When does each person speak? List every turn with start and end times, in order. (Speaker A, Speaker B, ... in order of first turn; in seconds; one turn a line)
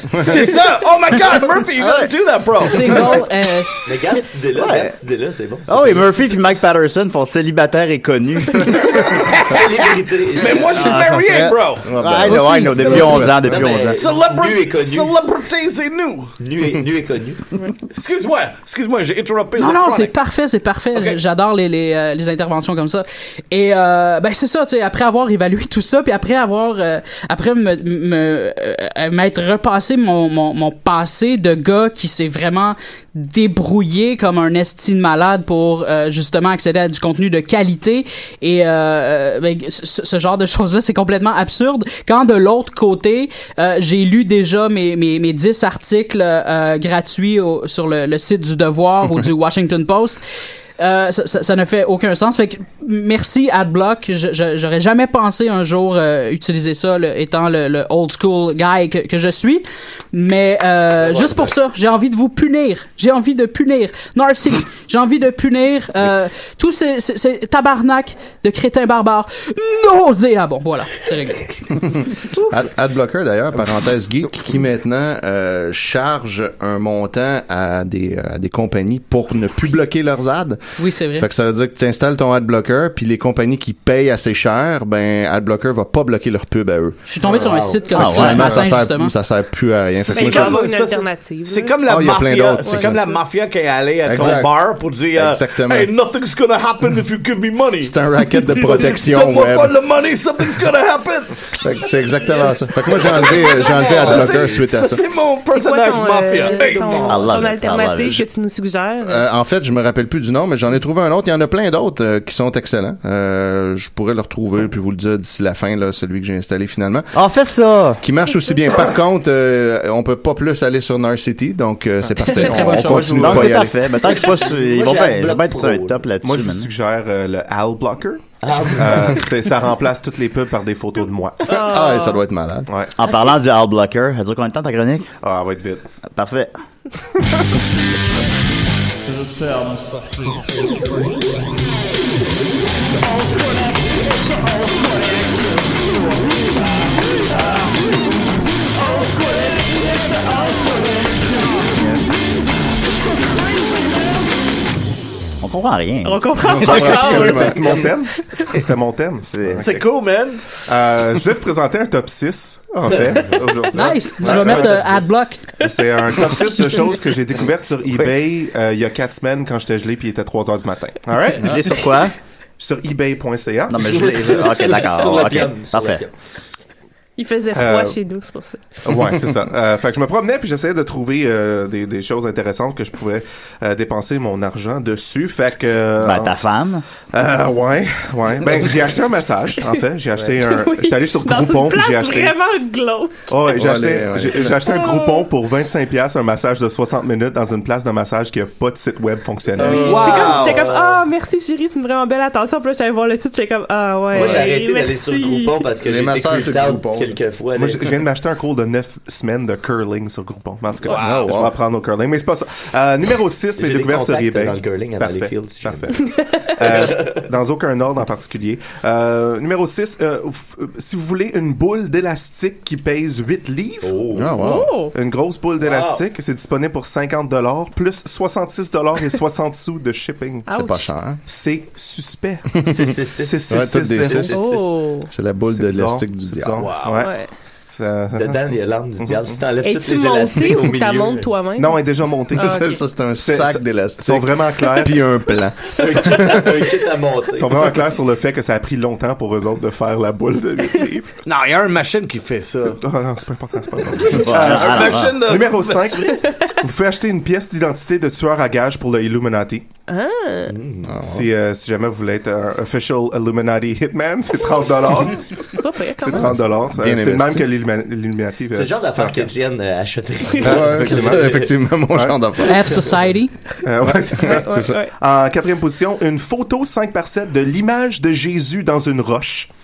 Speaker A: 0.1-3.1
Speaker B: 1.8-2.1
Speaker C: 2.6-3.9
Speaker D: 3.8-6.1
Speaker B: 4.5-4.9
Speaker B: 5.7-9.3
Speaker A: 8.6-11.9
Speaker D: 9.3-11.1
Speaker B: 10.7-14.0
Speaker E: 11.8-13.7
Speaker C: 12.2-13.4
Speaker D: 13.2-15.2
Speaker A: 13.8-16.3
Speaker D: 16.4-17.4
Speaker A: 17.9-20.1
Speaker C: 19.6-50.2
Speaker C: 50.8-72.5
Speaker D: 61.0-61.5
Speaker E: 71.9-87.0
Speaker C: 80.8-81.3
Speaker C: 87.1-89.1
Speaker D: 87.3-87.9
Speaker E: 87.9-90.6
Speaker B: 88.0-88.5
Speaker F: 90.0-92.2
Speaker A: 90.0-101.6
Speaker E: 91.9-93.2
Speaker E: 94.0-95.9
Speaker E: 97.8-99.8
Speaker E: 101.6-105.0
Speaker A: 102.8-107.1
Speaker D: 103.7-104.5
Speaker F: 105.5-109.2
Speaker D: 106.4-107.4
Speaker B: 107.1-108.2
Speaker E: 109.0-117.1
Speaker B: 117.1-118.0
Speaker E: 118.0-123.8
Speaker C: 122.3-123.4
Speaker B: 122.8-126.7
Speaker D: 124.2-126.0
Speaker G: 126.2-131.6
Speaker D: 128.4-129.2
Speaker F: 131.5-132.2
Speaker E: 131.5-132.7
Speaker G: 132.7-133.0
Speaker B: 133.0-135.1
Speaker G: 135.2-135.8
Speaker B: 136.1-136.6
Speaker B: 151.7-152.1
Speaker B: 155.4-156.7
Speaker F: 156.0-158.5
Speaker E: 156.4-157.9
Speaker G: 156.7-159.9
Speaker B: 159.3-159.7
Speaker A: 159.6-160.4
Speaker G: 160.6-165.1
Speaker D: 163.0-163.4
Speaker C: 163.7-165.6
Speaker D: 164.2-165.0
Speaker G: 165.6-171.9
Speaker B: 171.4-172.2
Speaker G: 172.6-175.2
Speaker B: 173.7-176.0
Speaker D: 173.8-176.1
Speaker F: 177.2-178.8
Speaker G: 177.5-178.0
Speaker G: 178.8-186.4
Speaker B: 186.0-186.8
Speaker G: 187.1-192.4
Speaker F: 190.4-193.4
Speaker G: 193.3-200.1
Speaker E: 193.6-194.6
Speaker F: 194.6-195.3
Speaker D: 199.6-200.9
Speaker F: 199.6-205.6
Speaker A: 199.6-200.7
Speaker D: 204.1-208.0
Speaker E: 205.8-207.2
Speaker G: 207.6-224.0
Speaker E: 210.9-211.6
Speaker D: 213.6-216.0
Speaker F: 216.0-216.5
Speaker D: 216.6-217.1
Speaker D: 223.8-224.5
Speaker E: 224.2-224.7
Speaker F: 224.4-224.9
Speaker G: 224.9-230.6
Speaker A: 225.6-226.0
Speaker F: 230.5-230.9
Speaker E: 230.5-231.2
Speaker G: 231.3-234.3
Speaker D: 232.6-234.8
Speaker E: 233.5-234.4
Speaker F: 234.2-235.1
Speaker E: 235.1-236.7
Speaker G: 235.5-237.1
Speaker A: 236.6-237.0
Speaker F: 236.9-237.3
Speaker G: 237.7-239.4
Speaker D: 238.2-241.3
Speaker F: 239.6-242.8
Speaker G: 241.6-245.0
Speaker E: 242.3-246.7
Speaker D: 245.7-247.8
Speaker G: 247.3-251.2
Speaker A: 251.3-252.8
Speaker G: 252.8-259.7
Speaker A: 253.9-256.2
Speaker B: 254.2-255.2
Speaker F: 256.2-256.5
Speaker F: 259.9-260.6
Speaker D: 260.5-260.9
Speaker E: 260.8-261.3
Speaker G: 261.0-265.4
Speaker F: 265.6-266.3
Speaker G: 266.0-269.3
Speaker E: 266.1-267.5
Speaker D: 268.5-271.6
Speaker F: 270.3-270.6
Speaker G: 270.4-272.2
Speaker E: 270.4-272.9
Speaker C: 272.4-273.3
Speaker G: 273.6-279.5
Speaker E: 273.9-274.8
Speaker F: 274.2-274.9